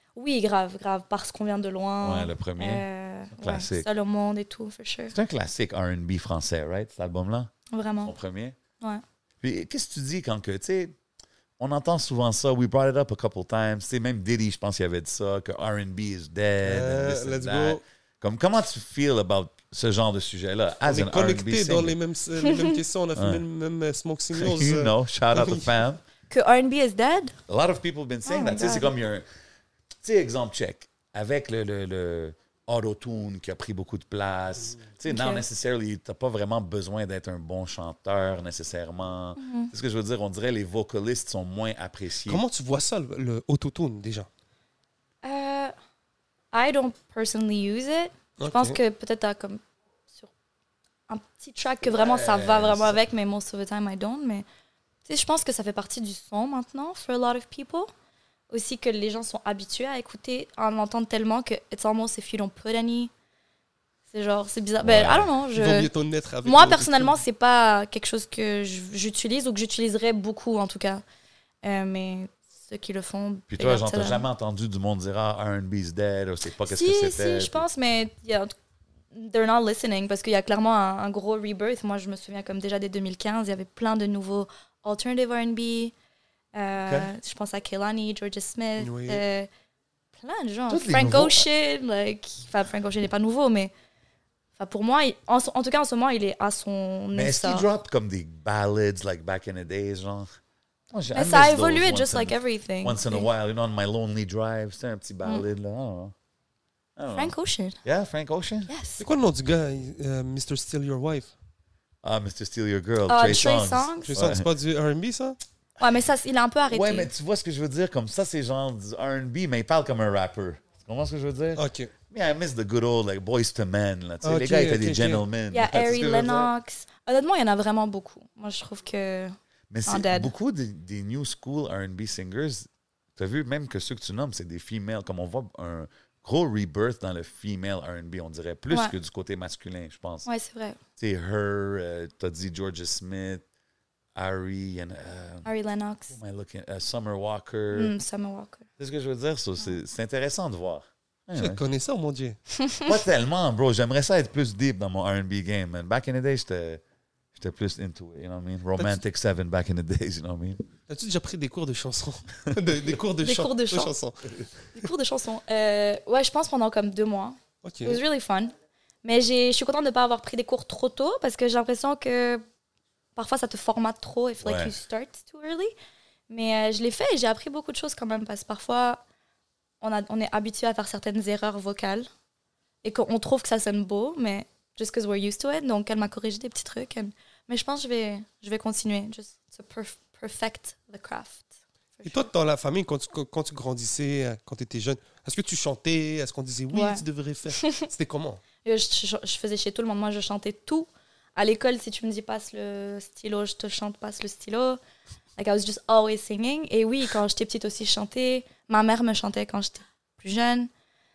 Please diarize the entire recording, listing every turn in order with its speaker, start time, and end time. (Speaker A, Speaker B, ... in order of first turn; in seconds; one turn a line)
Speaker A: 0.2-5.2
Speaker B: 2.0-3.9
Speaker B: 5.1-7.5
Speaker A: 7.7-8.1
Speaker B: 8.0-8.6
Speaker B: 9.4-10.9
Speaker B: 11.6-22.0
Speaker C: 16.6-17.8
Speaker C: 20.8-25.7
Speaker A: 22.4-22.7
Speaker B: 23.2-23.4
Speaker B: 24.4-26.0
Speaker A: 26.3-27.4
Speaker B: 27.5-29.2
Speaker A: 28.2-28.9
Speaker B: 30.0-42.4
Speaker A: 35.1-35.4
Speaker A: 39.4-39.7
Speaker C: 42.3-44.3
Speaker A: 45.2-45.7
Speaker A: 46.5-49.6
Speaker C: 48.4-48.8
Speaker A: 51.1-54.5
Speaker C: 51.9-52.6
Speaker B: 52.4-52.9
Speaker A: 55.1-57.9
Speaker A: 58.5-63.1
Speaker A: 64.1-65.9
Speaker B: 64.8-65.3
Speaker C: 65.5-67.2
Speaker A: 66.4-71.0
Speaker A: 71.6-74.2
Speaker B: 73.5-77.7
Speaker A: 76.6-78.5
Speaker A: 79.1-85.9
Speaker A: 86.5-89.5
Speaker B: 86.8-87.1
Speaker C: 88.8-89.2
Speaker A: 90.2-93.7
Speaker B: 90.7-91.5
Speaker A: 94.6-97.7
Speaker B: 97.1-100.3
Speaker B: 100.9-106.1
Speaker A: 101.1-103.3
Speaker B: 107.0-108.7
Speaker A: 107.1-107.8
Speaker A: 108.7-109.0
Speaker C: 109.0-111.3
Speaker B: 112.0-114.5
Speaker A: 113.1-114.2
Speaker C: 114.1-115.4
Speaker A: 115.8-117.1
Speaker B: 116.7-126.5
Speaker C: 121.6-121.9
Speaker C: 124.2-125.2
Speaker A: 125.5-129.3
Speaker B: 129.7-140.3
Speaker A: 129.9-130.3
Speaker A: 140.3-140.8
Speaker B: 141.0-143.4
Speaker B: 144.2-145.5
Speaker A: 145.4-146.1
Speaker B: 146.1-147.9
Speaker A: 147.7-148.7
Speaker B: 148.8-151.6
Speaker C: 151.4-152.4
Speaker B: 152.8-156.8
Speaker B: 157.3-160.6
Speaker C: 160.9-164.4
Speaker A: 163.2-163.9
Speaker A: 164.8-172.4
Speaker C: 167.6-168.0
Speaker A: 173.2-175.7
Speaker B: 174.4-174.7
Speaker A: 176.3-179.0
Speaker A: 179.8-182.1
Speaker A: 182.8-192.3
Speaker C: 192.1-198.4
Speaker A: 196.7-197.0
Speaker A: 197.6-197.9
Speaker A: 198.6-204.8
Speaker A: 205.4-210.7